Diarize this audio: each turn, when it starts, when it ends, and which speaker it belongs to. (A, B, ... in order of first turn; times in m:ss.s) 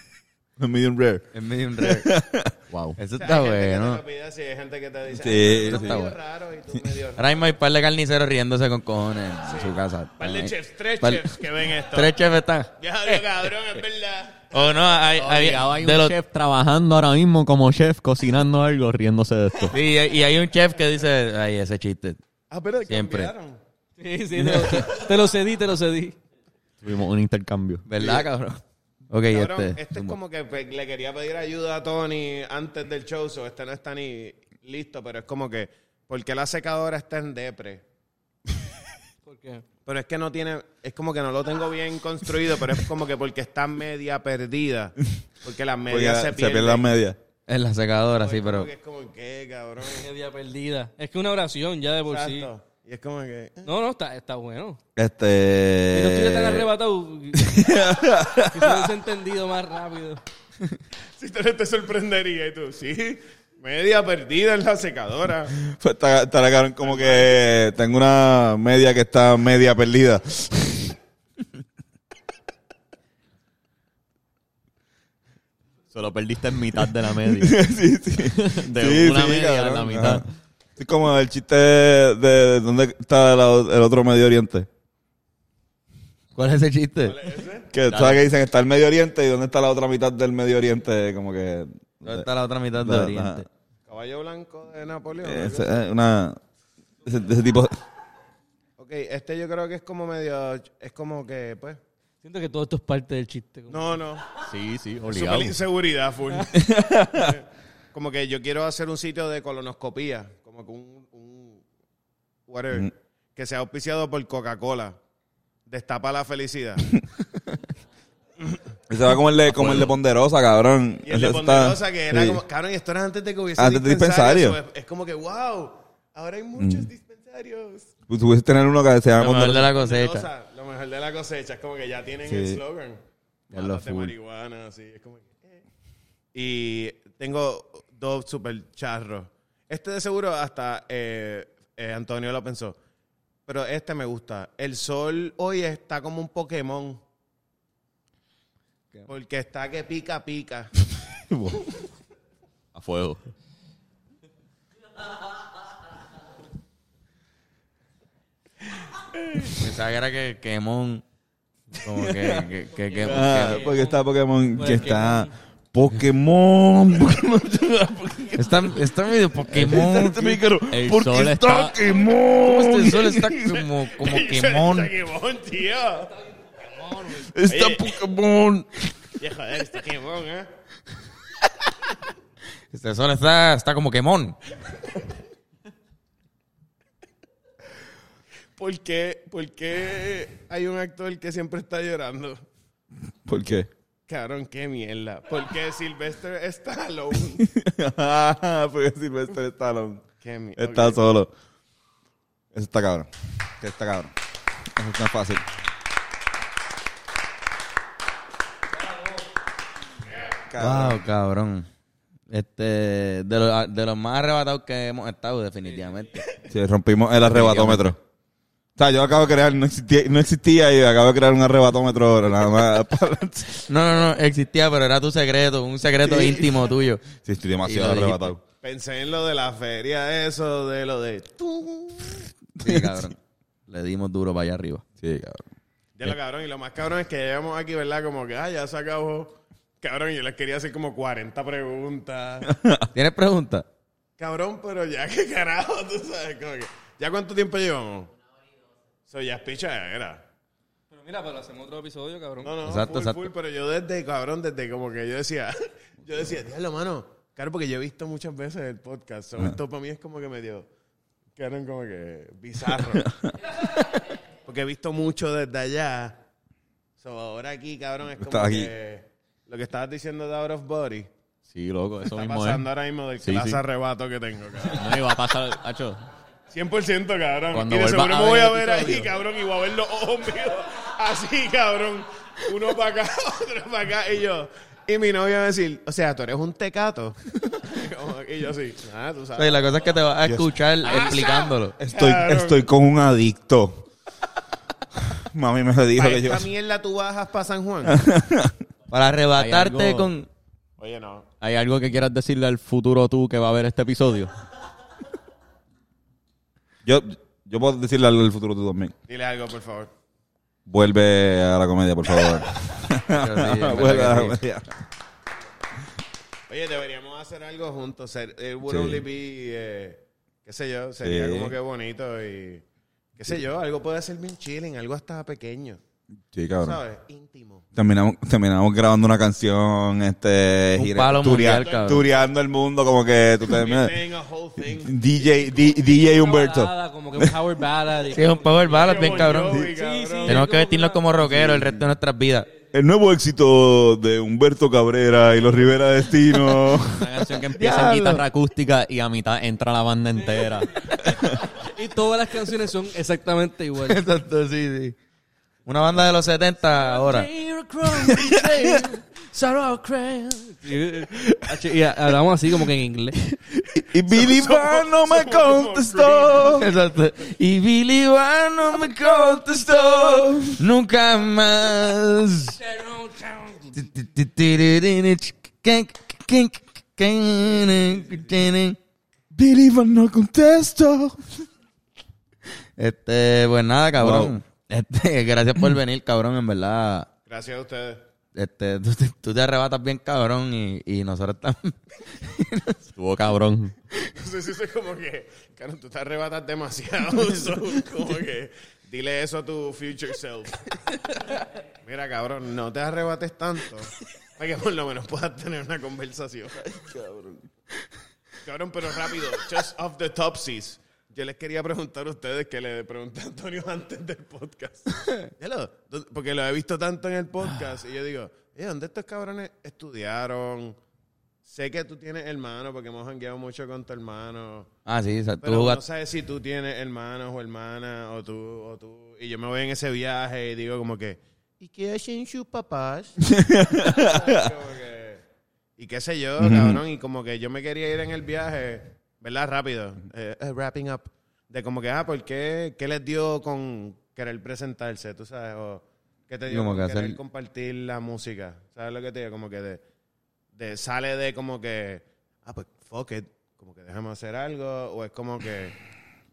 0:00.6-0:02.5 A
0:01.3-0:02.1 B
0:02.7-0:03.0 C
0:03.0-0:04.0 B
0:03.2-0:07.4 D
0:05.1-0:06.1 A
0:05.6-0:06.1 B
0:07.2-0:13.4 B
0:09.4-0:12.2 D
0:12.8-0:14.9 D
0:14.5-0:16.2 B
0:15.2-0:19.8 C
0:19.7-0:22.2 B
0:22.5-0:23.6 D
0:22.9-0:23.3 B
0:24.0-0:26.2 E
0:24.5-0:24.8 C
0:26.8-0:28.3 C
0:27.8-0:30.2 B
0:29.3-0:37.8 D
0:39.2-0:39.6 E
0:39.8-0:46.9 D
0:45.9-0:47.2 A
0:47.5-0:48.7 B
0:48.2-0:50.1 D
0:49.9-0:52.5 E
0:52.1-0:53.7 D
0:53.6-0:54.8 E
0:55.0-0:56.7 A
0:55.9-0:57.5 E
0:57.3-0:58.9 A
0:58.4-1:00.2 E
1:01.2-1:05.5 D
1:05.6-1:10.9 A
1:06.8-1:07.4 D
1:15.9-1:17.6 C
1:17.3-1:20.2 A
1:18.3-1:20.2 C
1:20.8-1:24.7 A
1:26.4-1:27.2 B
1:27.0-1:27.7 D
1:27.7-1:33.4 A
1:27.8-1:28.2 C
1:32.0-1:33.5 B
1:33.9-1:35.8 D
1:35.2-1:36.4 A
1:37.0-1:37.8 A
1:38.8-1:41.8 D
1:42.2-1:43.8 E
1:43.7-1:44.3 D
1:44.4-1:45.6 C
1:45.1-1:51.6 D
1:46.5-1:47.4 A
1:52.5-1:55.0 D
1:55.7-1:56.9 D
1:58.9-2:02.4 A
2:01.0-2:07.9 D
2:03.6-2:04.6 A
2:06.6-2:06.9 A
2:08.1-2:09.7 A
2:09.2-2:10.3 B
2:09.6-2:13.0 D
2:12.2-2:12.6 A
2:13.5-2:14.1 B
2:13.5-2:15.6 D
2:16.3-2:22.8 D
2:23.5-2:27.0 D
2:29.1-2:30.7 D
2:31.3-2:31.8 A
2:32.7-2:33.2 C
2:39.6-2:41.0 B
2:41.8-2:43.7 B
2:41.9-2:42.5 A
2:43.0-2:48.8 A
2:44.6-2:45.3 E
2:48.4-2:50.4 B
2:49.5-2:53.7 A
2:50.7-2:51.8 C
2:52.4-2:54.9 B
2:53.9-2:56.1 D
2:56.6-2:57.1 E
2:57.1-2:59.1 A
2:57.5-2:57.9 D
2:59.2-3:00.5 D
3:02.7-3:04.4 B
3:08.6-3:12.4 D
3:13.3-3:13.7 A
3:14.1-3:17.4 D
3:17.4-3:20.0 A
3:20.2-3:21.0 D
3:20.6-3:21.3 A
3:22.5-3:24.1 A
3:24.8-3:25.4 A
3:30.5-3:31.0 A
3:30.6-3:31.7 B
3:32.3-3:36.2 B
3:36.5-3:38.0 A
3:37.3-3:37.8 C
3:38.8-3:43.6 A
3:43.7-3:47.0 B
3:46.0-3:48.4 A
3:47.6-3:48.4 B
3:48.6-3:52.2 D
3:52.6-3:53.1 A
3:52.6-3:53.2 B
3:53.7-3:54.8 B
3:55.0-3:55.4 A
3:56.0-4:02.5 D
4:02.4-4:02.9 A
4:02.9-4:03.6 B
4:04.2-4:08.1 D
4:09.1-4:10.2 D
4:10.9-4:12.5 E
4:12.4-4:20.7 D
4:12.6-4:13.3 B
4:21.4-4:23.1 D
4:22.9-4:23.3 A
4:24.4-4:26.2 D
4:27.0-4:31.1 D
4:28.1-4:28.7 A
4:31.5-4:32.6 C
4:32.1-4:35.0 D
4:33.2-4:33.6 C
4:34.6-4:36.1 C
4:36.5-4:49.9 D
4:37.5-4:39.1 C
4:49.4-4:51.8 B
4:50.8-4:52.7 D
4:50.9-4:51.3 C
4:51.8-4:53.9 A
4:55.0-4:56.5 A
4:56.0-4:58.0 D
4:57.8-4:58.5 A
4:58.9-5:00.3 B
4:59.4-5:00.1 C
5:00.8-5:01.2 D
5:01.4-5:04.3 C
5:06.8-5:08.9 A
5:09.1-5:09.9 D
5:10.6-5:14.7 A
5:13.1-5:14.4 B
5:16.5-5:22.6 D
5:18.6-5:19.0 A
5:21.0-5:21.6 A
5:23.2-5:25.8 D
5:26.3-5:26.8 A
5:26.6-5:27.6 D
5:27.8-5:34.0 A
5:30.7-5:32.0 B
5:31.4-5:32.3 D
5:33.5-5:35.7 D
5:34.6-5:37.4 A
5:36.0-5:41.1 E
5:38.1-5:39.6 B
5:38.7-5:40.4 D
5:40.2-5:42.5 B
5:41.2-5:41.9 A
5:42.7-5:47.1 A
5:46.8-5:50.7 C
5:47.6-5:48.2 B
5:50.3-5:54.0 E
5:53.8-5:55.0 B
5:55.6-5:57.3 B
5:56.6-6:03.4 E
5:58.1-5:58.8 A
6:01.2-6:01.5 A
6:03.7-6:06.6 A
6:04.0-6:06.6 D
6:06.5-6:09.4 B
6:08.8-6:10.6 A
6:10.5-6:12.6 B
6:12.6-6:13.8 E
6:13.7-6:18.8 B
6:19.3-6:21.2 A
6:22.8-6:27.1 B
6:24.0-6:24.3 A
6:27.3-6:28.0 D
6:28.3-6:32.8 B
6:32.9-6:33.7 C
6:34.1-6:40.7 D
6:41.8-6:46.8 D
6:46.7-6:47.4 A
6:48.4-7:00.8 D
7:01.4-7:04.7 D
7:04.8-7:05.8 B
7:05.4-7:13.2 D
7:13.2-7:14.5 A
7:13.8-7:15.2 D
7:15.8-7:29.8 D
7:16.4-7:16.8 A
7:26.5-7:27.2 B
7:30.5-7:35.8 D